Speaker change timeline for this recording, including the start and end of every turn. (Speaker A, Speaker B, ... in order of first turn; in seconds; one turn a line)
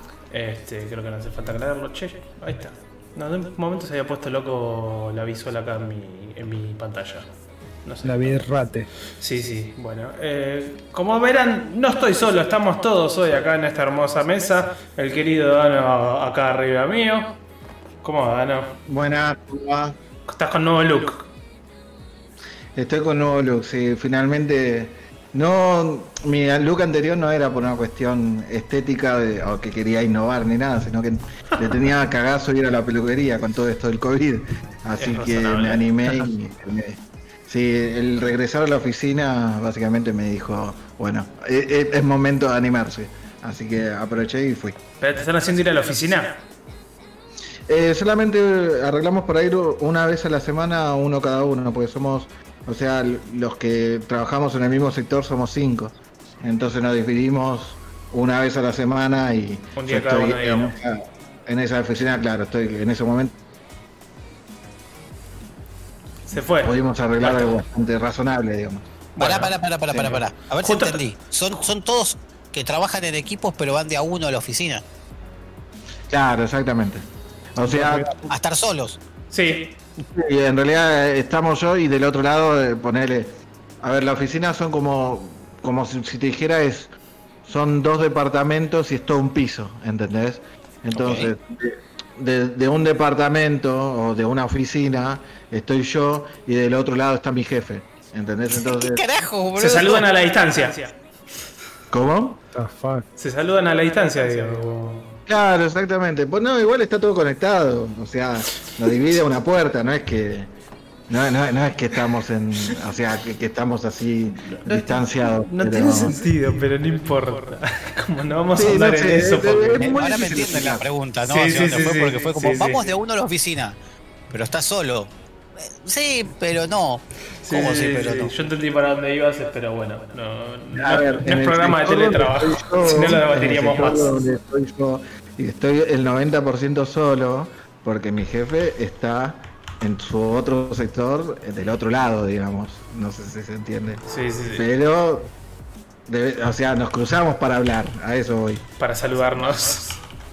Speaker A: 0.3-7.3
Speaker A: 7.8-8.5
Speaker B: 8.0-8.9
Speaker A: 9.2-17.4
Speaker A: 18.0-18.8
Speaker C: 18.9-20.0
Speaker A: 20.3-21.3
Speaker C: 22.8-44.8
Speaker A: 35.0-36.2
Speaker A: 45.0-46.4
Speaker C: 47.7-63.4
Speaker A: 59.8-60.8
Speaker A: 66.3-67.6
Speaker C: 66.6-68.9
Speaker A: 69.2-69.5
Speaker D: 69.2-74.8
Speaker C: 69.9-70.2
Speaker A: 70.6-71.0
Speaker C: 76.1-77.0
Speaker C: 77.6-78.1
Speaker B: 77.6-78.3
Speaker D: 78.3-79.0
Speaker A: 79.3-79.7
Speaker C: 80.0-86.9
Speaker C: 87.5-99.0
Speaker D: 90.9-91.3
Speaker D: 98.6-100.1
Speaker A: 99.6-100.9
Speaker C: 101.9-102.4
Speaker B: 102.5-103.1
Speaker A: 103.2-105.1
Speaker C: 105.3-110.5
Speaker C: 111.1-116.2
Speaker A: 114.5-120.3
Speaker C: 118.5-120.8
Speaker D: 119.8-123.8
Speaker A: 121.3-122.9
Speaker D: 124.3-128.3
Speaker A: 127.4-134.1
Speaker C: 130.8-145.3
Speaker A: 144.1-144.7
Speaker C: 146.1-148.6
Speaker A: 148.8-150.0